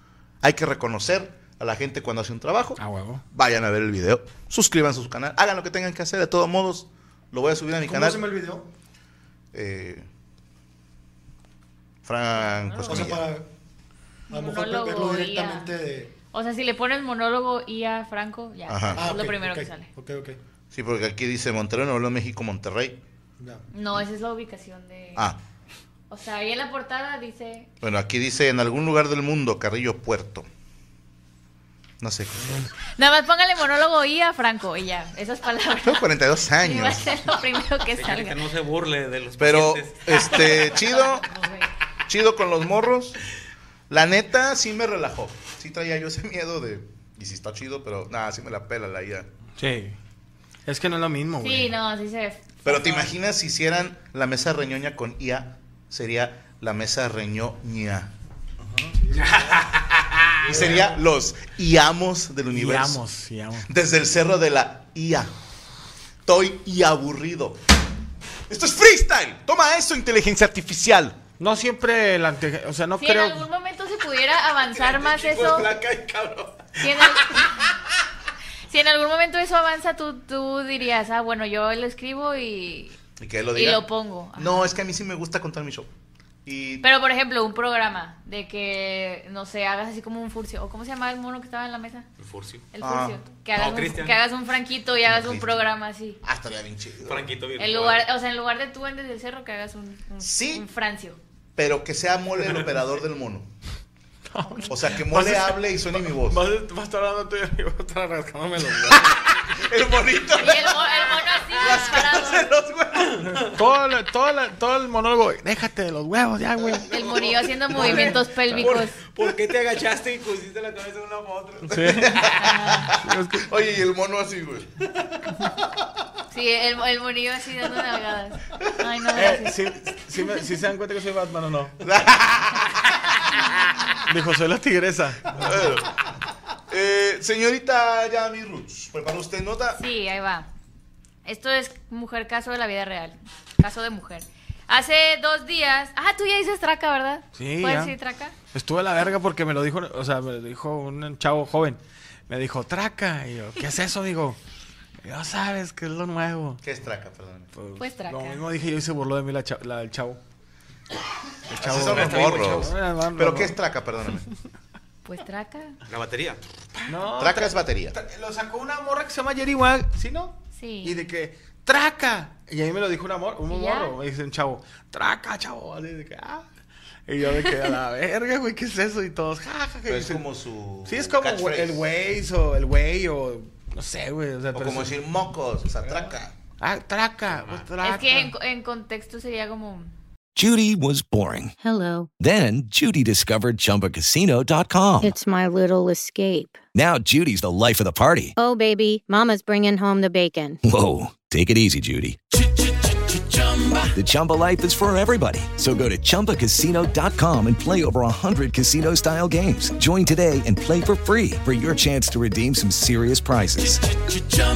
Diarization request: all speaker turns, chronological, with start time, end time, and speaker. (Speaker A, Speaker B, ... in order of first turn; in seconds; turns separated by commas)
Speaker A: 0.4-2.8, Speaker B: 2.8-3.2, Speaker A: 3.3-8.3, Speaker C: 7.8-8.7, Speaker A: 9.5-10.1, Speaker A: 12.1-13.2, Speaker D: 12.4-13.1, Speaker C: 12.8-13.5, Speaker D: 14.3-15.7, Speaker C: 14.3-16.1, Speaker D: 16.3-19.9, Speaker A: 18.7-19.1, Speaker C: 18.9-20.4, Speaker A: 20.7-23.0, Speaker C: 23.4-23.6, Speaker D: 23.7-25.3, Speaker D: 26.1-27.7, Speaker A: 27.8-30.5, Speaker A: 32.0-32.7, Speaker D: 33.0-36.0, Speaker A: 35.8-37.2, Speaker D: 36.6-38.4, Speaker E: 38.0-40.8, Speaker A: 39.4-41.3, Speaker D: 40.6-41.7, Speaker A: 42.1-43.2, Speaker A: 43.9-49.3, Speaker B: 49.6-50.0, Speaker B: 50.7-51.7, Speaker D: 51.4-53.1, Speaker A: 52.6-58.1, Speaker C: 58.7-59.7, Speaker E: 59.2-60.5, Speaker C: 60.4-61.0, Speaker A: 60.5-63.0, Speaker B: 62.5-63.7, Speaker A: 63.7-65.3, Speaker A: 66.3-67.6, Speaker A: 68.5-71.2, Speaker B: 71.4-73.5, Speaker D: 73.0-75.7, Speaker E: 74.7-77.5, Speaker D: 76.8-77.7, Speaker D: 78.7-83.0, Speaker A: 83.2-83.8, Speaker D: 83.5-84.8, Speaker A: 84.4-85.9, Speaker A: 86.5-86.9, Speaker D: 86.8-92.1, Speaker E: 92.2-92.7, Speaker D: 92.7-96.2, Speaker A: 92.8-93.2, Speaker E: 93.5-94.2, Speaker A: 95.0-95.7, Speaker A: 96.2-97.3, Speaker E: 97.1-98.0, Speaker D: 97.6-101.2, Speaker A: 100.2-100.7, Speaker A: 101.6-103.5, Speaker B: 104.3-109.1, Speaker D: 104.4-104.7, Speaker A: 104.7-106.4, Speaker A: 108.9-113.6, Speaker D: 110.3-112.5, Speaker B: 113.2-116.9, Speaker D: 116.9-119.0, Speaker E: 117.7-122.5, Speaker A: 117.8-118.0, Speaker B: 121.7-122.2, Speaker A: 121.9-124.8, Speaker D: 122.4-122.9, Speaker B: 122.8-123.5, Speaker D: 126.3-129.7, Speaker B: 129.1-131.8, Speaker D: 130.2-130.5, Speaker A: 131.8-133.1, Speaker B: 134.1-135.5, Speaker A: 135.3-135.9, Speaker A: 136.7-139.8, Speaker D: 139.8-140.5, Speaker D: 141.2-148.4, Speaker B: 147.3-154.4, Speaker B: 155.0-156.6, Speaker A: 156.6-157.5, Speaker B: 157.5-160.2, Speaker D: 157.8-158.4, Speaker B: 161.5-163.6, Speaker A: 161.5-164.3, Speaker E: 161.7-162.7, Speaker D: 165.1-165.8, Speaker E: 165.9-166.8, Speaker B: 166.9-176.5, Speaker A: 167.2-168.0, Speaker D: 170.6-171.0, Speaker D: 173.4-174.0, Speaker B: 177.1-180.2, Speaker A: 179.9-181.8, Speaker B: 180.9-184.9, Speaker A: 184.5-186.3, Speaker B: 185.8-188.3, Speaker E: 187.3-187.7, Speaker D: 187.8-189.9, Speaker F: 190.4-191.6, Speaker G: 191.6-192.1, Speaker F: 192.2-195.2, Speaker G: 195.0-196.6, Speaker F: 196.7-198.3, Speaker G: 198.4-200.6, Speaker F: 200.6-202.2, Speaker F: 203.9-213.9